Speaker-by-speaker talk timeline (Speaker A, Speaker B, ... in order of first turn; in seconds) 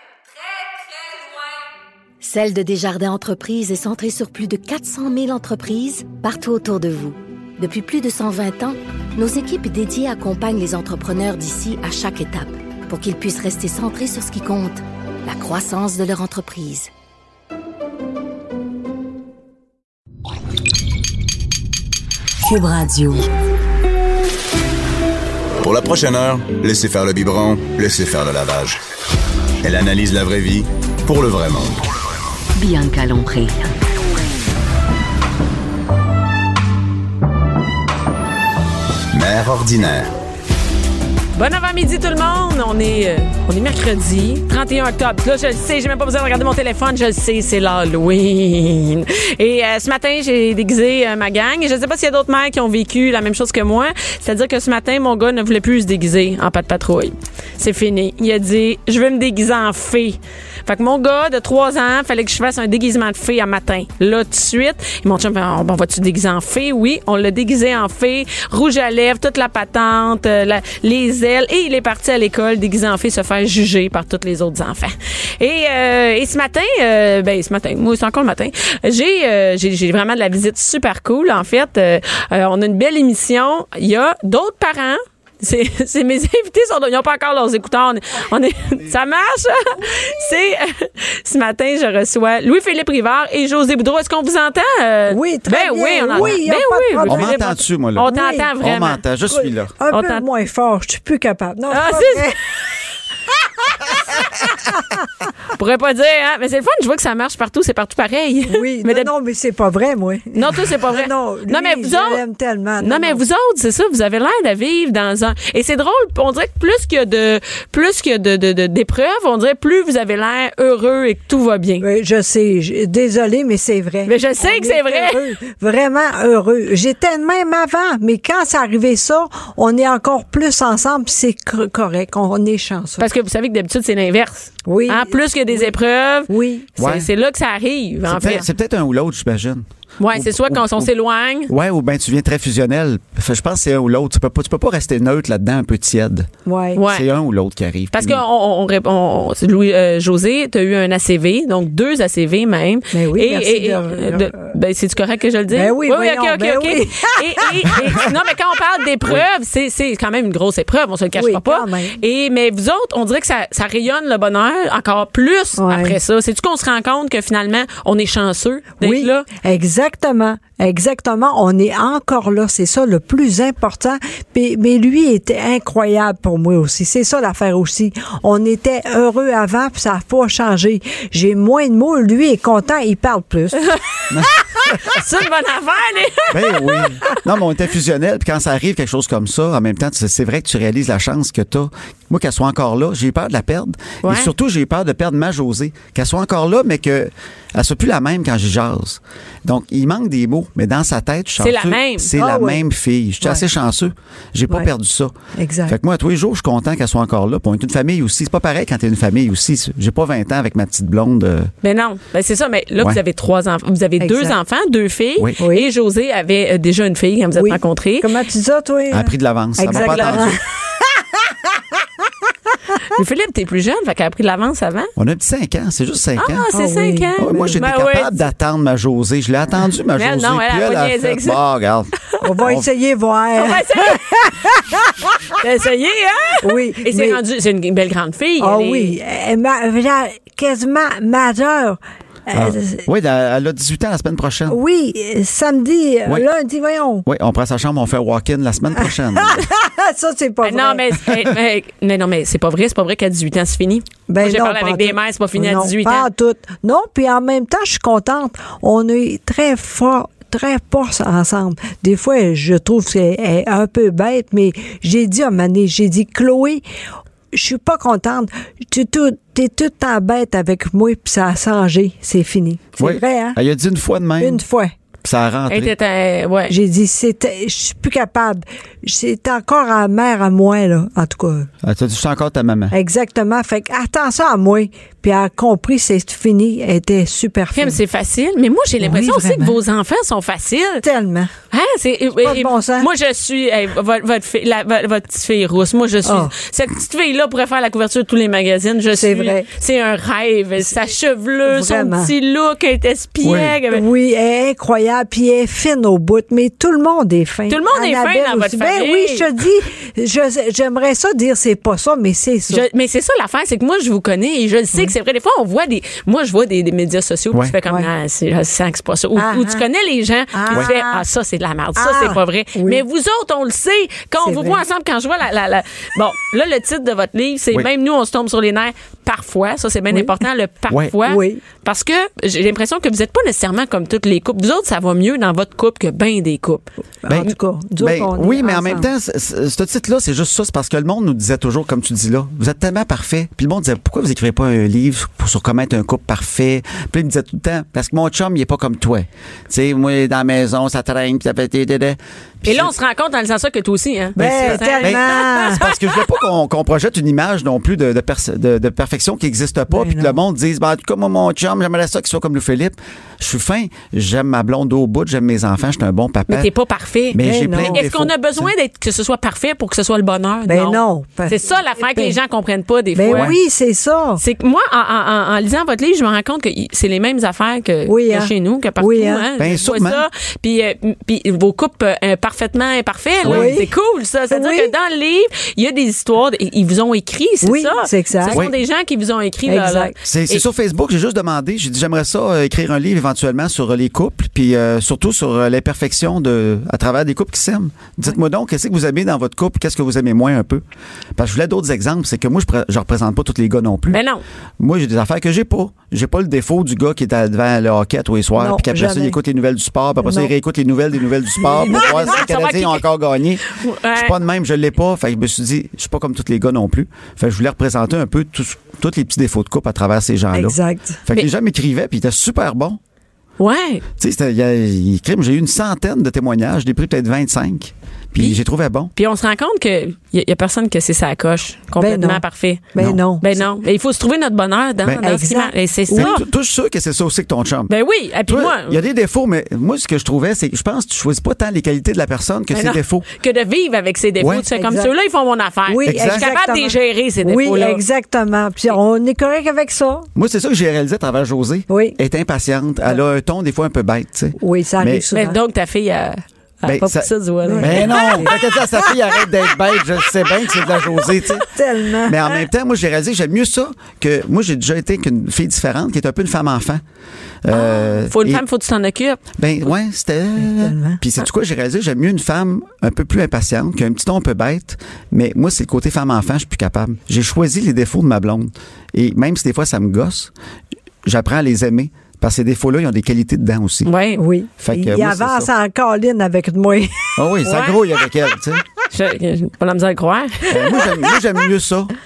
Speaker A: 0.5-1.2, 2.2-16.9, 22.4-23.2, 32.5-33.7
Speaker B: 25.6-28.8, 29.6-31.9, 39.1-40.1
Speaker C: 41.3-99.0, 99.9-100.2, 101.7-102.3, 105.5-109.1, 110.3-112.2, 112.8-121.8, 124.0-125.2, 133.0-138.4, 140.0-141.5, 146.7-147.1, 147.9-169.2, 183.6-184.0, 184.7-187.2, 194.0-194.3, 201.4-202.1, 211.6-218.1, 219.7-220.3, 222.9-224.9, 226.2-228.3, 229.9-231.4, 233.3-234.2, 235.4-238.9, 250.4-256.1, 275.5-276.5, 287.5-290.8, 291.5-303.8, 307.5-309.3, 312.5-336.7, 352.4-356.0, 366.3-373.4, 374.2-390.4, 403.9-404.2, 411.4-412.8, 413.4-414.1, 423.4-423.8, 428.9-432.6, 433.2-436.2, 437.7-438.8, 442.5-447.8, 455.1-458.9, 460.8-461.0, 467.5-469.2, 483.8-484.2, 487.4-487.8, 488.9-490.9
Speaker D: 95.1-97.5, 98.1-98.5, 99.3-102.3, 108.5-113.2, 121.8-133.1, 134.7-135.7, 136.3-136.7, 146.4-146.8, 152.9-154.5, 155.5-158.0, 161.1-161.9, 165.6-165.9, 168.8-183.6, 202.2-202.6, 205.3-205.8, 214.0-214.3, 215.4-215.7, 217.4-220.4, 226.5-227.6, 232.2-235.2, 236.4-237.2, 238.4-242.8, 244.5-247.0, 248.8-250.9, 254.1-266.6, 267.3-273.4, 274.2-274.7, 276.5-281.5, 282.7-287.8, 288.8-289.5, 290.8-291.3, 292.2-292.9, 296.0-296.3, 298.9-299.5, 301.4-302.1, 303.7-312.6, 319.2-319.6, 320.3-321.0, 321.8-322.8, 324.2-324.6, 331.1-331.4, 337.0-338.9, 354.2-355.7, 359.7-360.1, 367.2-367.8, 370.5-371.4, 372.9-374.2, 377.9-379.2, 383.2-383.7, 384.3-384.7, 387.4-388.5, 389.4-389.9, 408.4-409.1, 410.0-410.3, 420.3-421.0, 431.8-433.4, 435.0-436.1, 444.5-444.9, 445.7-450.1, 451.7-451.9, 454.4-455.4, 457.4-458.4, 461.4-462.2, 470.4-471.0, 484.2-487.6
Speaker E: 97.1-99.7, 136.8-137.1, 138.1-140.9, 141.5-146.3, 146.8-148.2, 184.1-185.0, 186.3-205.1, 205.7-211.5, 218.9-220.4, 225.0-226.4, 227.2-232.7, 242.3-244.6, 247.0-249.4, 272.8-274.4, 275.0-275.7, 281.6-282.7, 303.2-303.5, 337.1-352.7, 354.1-366.5, 367.1-368.5, 373.1-373.4, 379.4-380.0, 383.2-383.6, 390.0-400.6, 401.1-404.0, 404.6-422.8, 424.0-428.9, 435.9-437.7, 438.2-443.1, 444.2-444.5, 445.8-446.3, 450.1-455.1, 456.6-461.5, 462.0-466.8, 467.4-468.4, 469.3-480.3, 481.0-483.9, 484.6-485.5, 487.2-488.6, 490.5-491.9